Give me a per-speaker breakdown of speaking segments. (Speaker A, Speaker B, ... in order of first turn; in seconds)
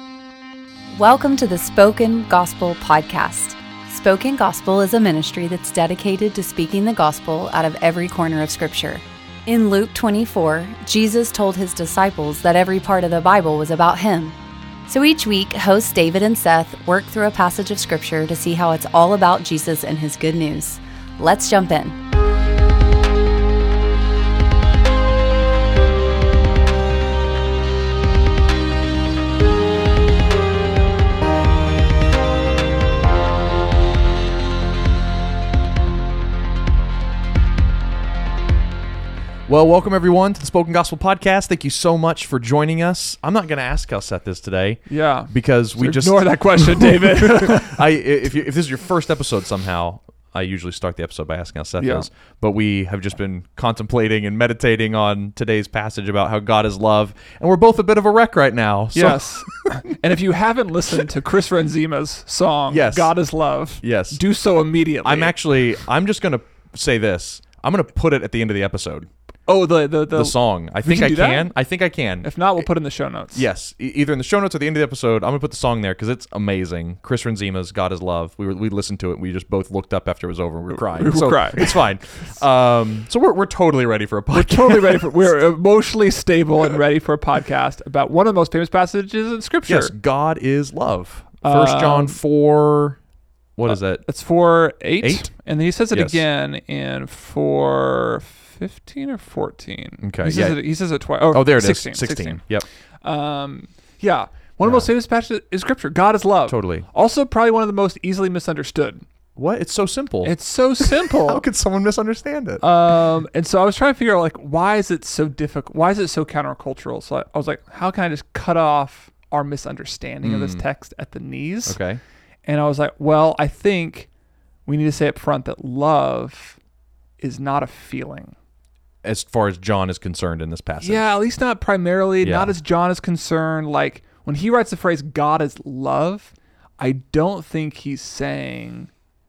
Speaker A: 0.9-14.3, 14.9-22.0
Speaker B: 39.5-60.0, 62.7-63.1, 63.8-64.2, 65.0-69.1, 70.1-72.6, 73.3-85.3, 89.7-93.0, 93.6-94.0, 95.0-95.3, 95.9-96.2, 100.0-100.6, 101.3-102.7, 106.5-106.9, 109.4-112.7, 120.2-120.7, 121.7-122.0, 129.0-131.1, 132.2-132.6
Speaker C: 44.9-47.8, 51.8-52.1, 58.9-65.3, 69.5-71.5, 72.2-73.5, 80.7-81.8, 84.3-89.9, 91.4-92.2, 93.7-102.4, 103.0-109.1, 110.2-111.4, 112.6-121.8, 122.5-124.1, 124.7-126.6, 127.2-128.3, 130.8-138.9